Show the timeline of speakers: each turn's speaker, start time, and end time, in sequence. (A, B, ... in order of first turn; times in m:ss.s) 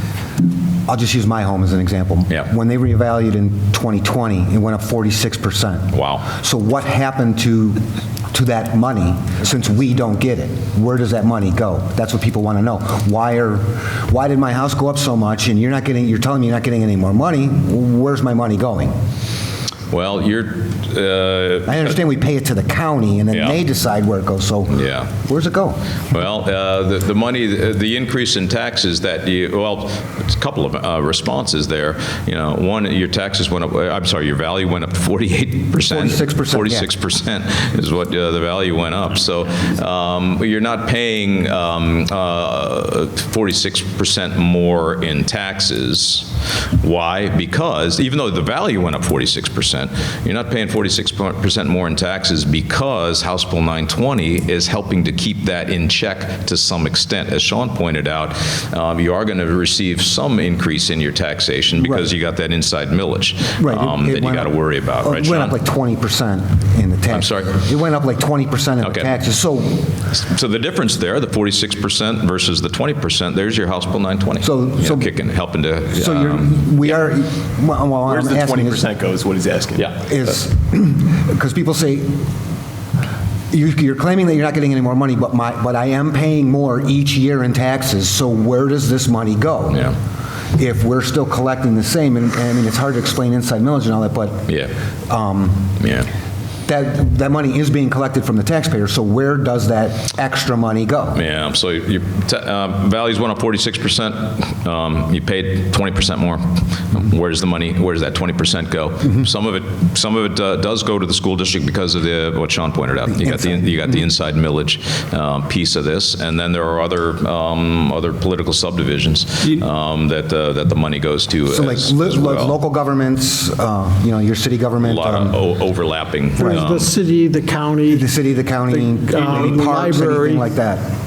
0:00.9-0:07.8 A
0:05.9-0:06.3 B
0:08.3-0:19.0 A
0:19.9-0:22.0 B
0:21.7-0:25.8 A
0:23.3-0:23.6 B
0:24.7-0:25.1 B
0:26.1-1:05.6 B
0:35.9-0:36.9 A
1:01.8-1:02.1 A
1:03.6-1:09.9 A
1:07.1-1:07.6 B
1:08.8-1:09.2 B
1:10.1-1:16.9 B
1:14.4-1:15.1 A
1:16.0-1:18.8 A
1:18.0-1:20.0 C
1:20.0-1:22.2 A
1:23.5-1:29.8 A
1:30.6-1:34.5 A
1:35.1-1:35.7 A
1:35.8-1:36.1 B
1:36.7-1:41.2 A
1:41.2-2:02.6 B
1:53.3-1:53.6 A
2:01.5-2:05.4 A
2:04.8-2:06.9 B
2:06.4-2:10.6 D
2:08.0-2:10.8 A